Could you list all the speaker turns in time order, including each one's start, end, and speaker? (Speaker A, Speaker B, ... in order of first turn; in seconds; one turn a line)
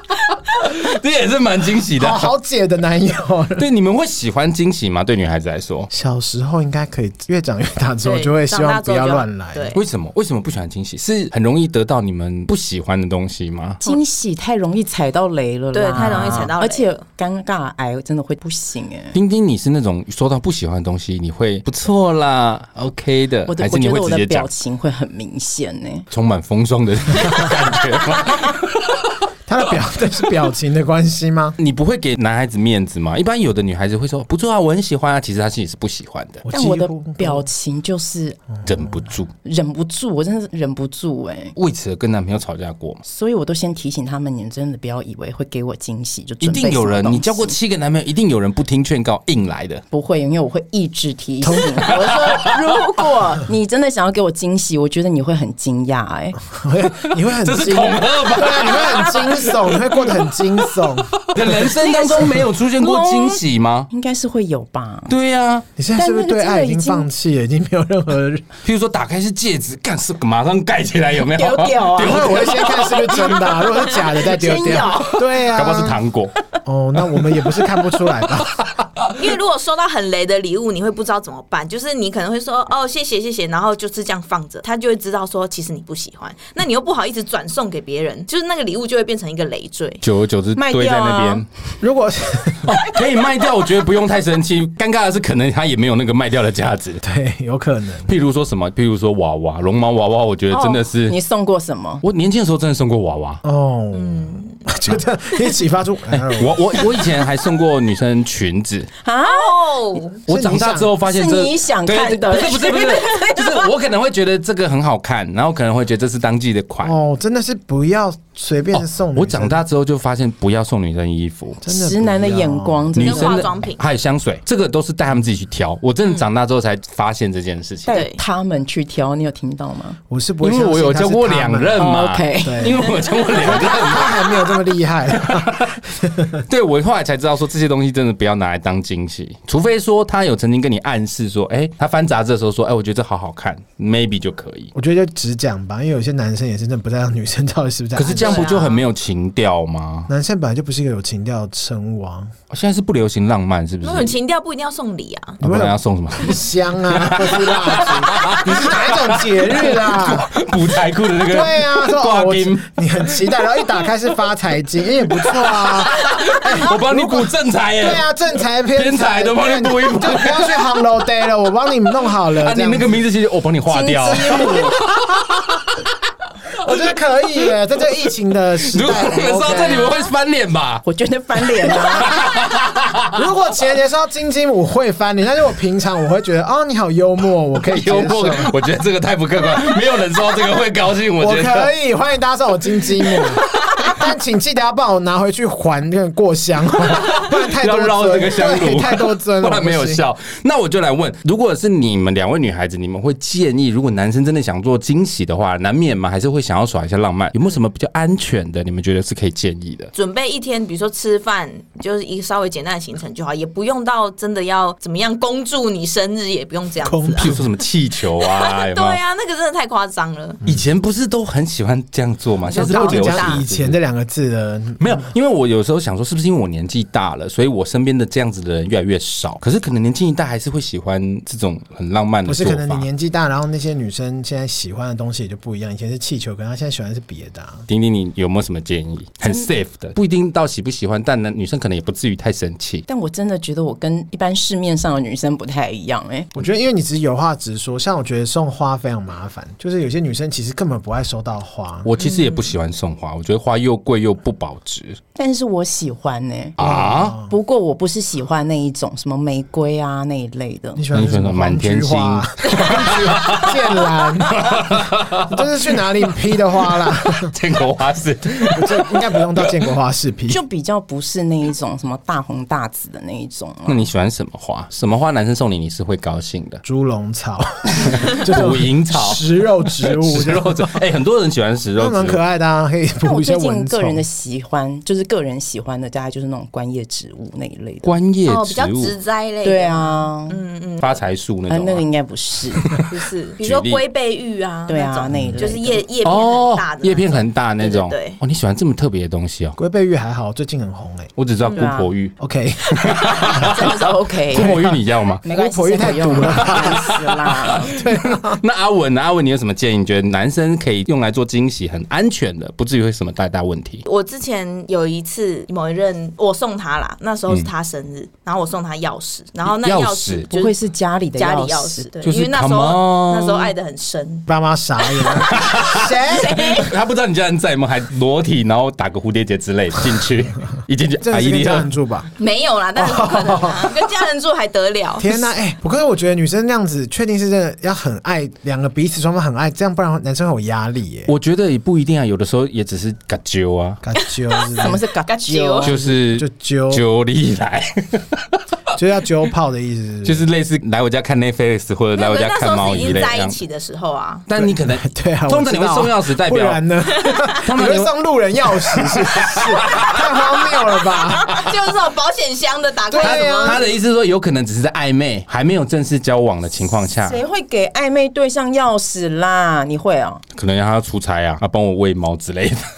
Speaker A: 0.3-2.3
Speaker B: 2.0-3.6
Speaker A: 3.6-5.9
Speaker B: 5.9-9.7
Speaker C: 8.0-9.8
Speaker A: 9.7-13.8
Speaker D: 13.8-19.1
Speaker C: 15.7-17.0
Speaker A: 16.1-16.5
Speaker A: 19.1-24.5
Speaker D: 23.5-26.1
Speaker A: 26.1-28.6
Speaker B: 29.5-31.6
Speaker A: 31.6-36.5
Speaker B: 36.4-37.5
Speaker D: 36.5-38.4
Speaker A: 38.6-39.3
Speaker D: 39.4-41.6
Speaker A: 41.6-43.0
Speaker D: 43.0-47.6
Speaker A: 46.4-49.8
Speaker D: 49.9-56.4
Speaker B: 51.4-52.0
Speaker A: 51.6-52.8
Speaker B: 56.5-61.2
Speaker A: 57.3-60.2
Speaker A: 61.2-63.9
Speaker D: 61.5-65.1
Speaker A: 65.1-65.7
Speaker B: 65.8-68.5
Speaker D: 66.0-67.1
Speaker A: 68.6-73.8
Speaker D: 71.3-72.8
Speaker B: 72.0-76.0
Speaker D: 73.6-75.2
Speaker A: 75.2-76.3
Speaker B: 76.6-78.6
Speaker A: 78.6-79.3
Speaker C: 79.2-90.0
Speaker A: 90.0-91.5
Speaker D: 90.5-91.4
Speaker B: 91.8-92.8
Speaker A: 92.7-97.0
Speaker B: 97.0-98.1
Speaker A: 98.1-101.2
Speaker D: 100.5-102.0
Speaker A: 102.0-103.4
Speaker B: 103.4-106.9
Speaker C: 103.9-104.6
Speaker A: 106.1-108.9
Speaker D: 109.0-109.8
Speaker C: 109.2-110.2
Speaker B: 110.3-110.9
Speaker A: 110.3-117.0
Speaker D: 111.0-113.5
Speaker C: 112.6-113.4
Speaker B: 116.8-119.6
Speaker A: 118.7-121.6
Speaker B: 121.6-123.0
Speaker D: 121.7-123.5
Speaker A: 123.0-128.0
Speaker C: 123.0-123.8
Speaker D: 127.9-130.0
Speaker C: 127.9-128.2
Speaker B: 130.1-131.8
Speaker A: 130.4-134.6
Speaker D: 131.8-132.8
Speaker B: 132.4-136.4
Speaker A: 135.2-135.7
Speaker A: 136.5-144.7
Speaker B: 144.8-148.5
Speaker A: 148.0-150.1
Speaker C: 148.1-148.8
Speaker B: 150.1-152.3
Speaker A: 152.5-154.1
Speaker C: 153.8-155.4
Speaker B: 155.4-160.4
Speaker A: 155.4-163.9
Speaker B: 161.2-173.0
Speaker A: 165.1-168.1
Speaker A: 168.7-170.8
Speaker A: 172.3-175.9
Speaker D: 173.7-174.8
Speaker B: 176.6-180.0
Speaker A: 178.6-180.8
Speaker D: 180.8-182.2
Speaker A: 181.4-183.3
Speaker B: 183.1-188.5
Speaker A: 187.6-191.7
Speaker B: 191.2-200.0
Speaker A: 193.0-193.9
Speaker A: 196.8-209.9
Speaker C: 209.9-217.4
Speaker B: 216.8-217.4
Speaker A: 217.2-219.0
Speaker C: 218.2-220.4
Speaker A: 220.4-223.8
Speaker C: 222.5-223.4
Speaker B: 222.5-225.1
Speaker A: 224.8-232.8
Speaker B: 232.3-237.7
Speaker A: 237.7-242.8
Speaker D: 239.2-239.6
Speaker D: 242.9-246.3
Speaker B: 246.3-251.9
Speaker A: 251.8-255.0
Speaker C: 252.0-252.5
Speaker D: 255.2-260.9
Speaker A: 256.6-257.2
Speaker B: 256.6-257.3
Speaker B: 260.8-267.3
Speaker A: 260.9-265.5
Speaker A: 266.8-269.6
Speaker B: 268.4-270.4
Speaker D: 270.3-273.9
Speaker A: 273.7-276.6
Speaker B: 276.6-280.8
Speaker A: 277.8-282.2
Speaker B: 281.8-284.0
Speaker D: 283.0-288.0
Speaker A: 287.9-289.0
Speaker C: 288.3-291.0
Speaker D: 289.4-290.4
Speaker A: 290.8-291.9
Speaker D: 291.5-292.7
Speaker A: 292.5-292.9
Speaker C: 292.9-298.2
Speaker A: 293.4-293.8
Speaker D: 294.7-295.9
Speaker B: 295.1-295.4
Speaker A: 296.1-299.6
Speaker B: 299.6-301.1
Speaker A: 301.2-302.1
Speaker C: 301.4-301.7
Speaker D: 301.5-301.9
Speaker B: 302.2-303.7
Speaker A: 302.7-303.7
Speaker D: 303.3-304.6
Speaker A: 304.3-305.2
Speaker B: 304.3-307.0
Speaker D: 305.2-307.7
Speaker A: 306.0-313.8
Speaker B: 307.6-308.4
Speaker C: 313.9-320.6
Speaker A: 319.5-320.3
Speaker D: 320.3-321.9
Speaker C: 321.1-324.3
Speaker A: 322.0-323.6
Speaker B: 324.3-326.6
Speaker C: 325.0-326.7
Speaker A: 325.1-331.7
Speaker B: 331.0-332.1
Speaker C: 332.2-335.2
Speaker B: 332.8-333.7
Speaker B: 335.0-341.1
Speaker A: 341.1-343.8
Speaker B: 343.8-344.8
Speaker C: 344.4-345.7
Speaker D: 344.6-345.8
Speaker A: 345.6-348.4
Speaker B: 345.8-346.8
Speaker B: 348.8-350.2
Speaker A: 350.1-353.4
Speaker C: 352.0-354.3
Speaker A: 354.3-356.6
Speaker B: 354.4-361.5
Speaker C: 356.9-357.4
Speaker A: 357.4-357.9
Speaker A: 358.4-360.0
Speaker C: 359.7-363.7
Speaker B: 362.9-363.6
Speaker A: 363.0-367.2
Speaker D: 366.9-370.2
Speaker A: 370.4-372.6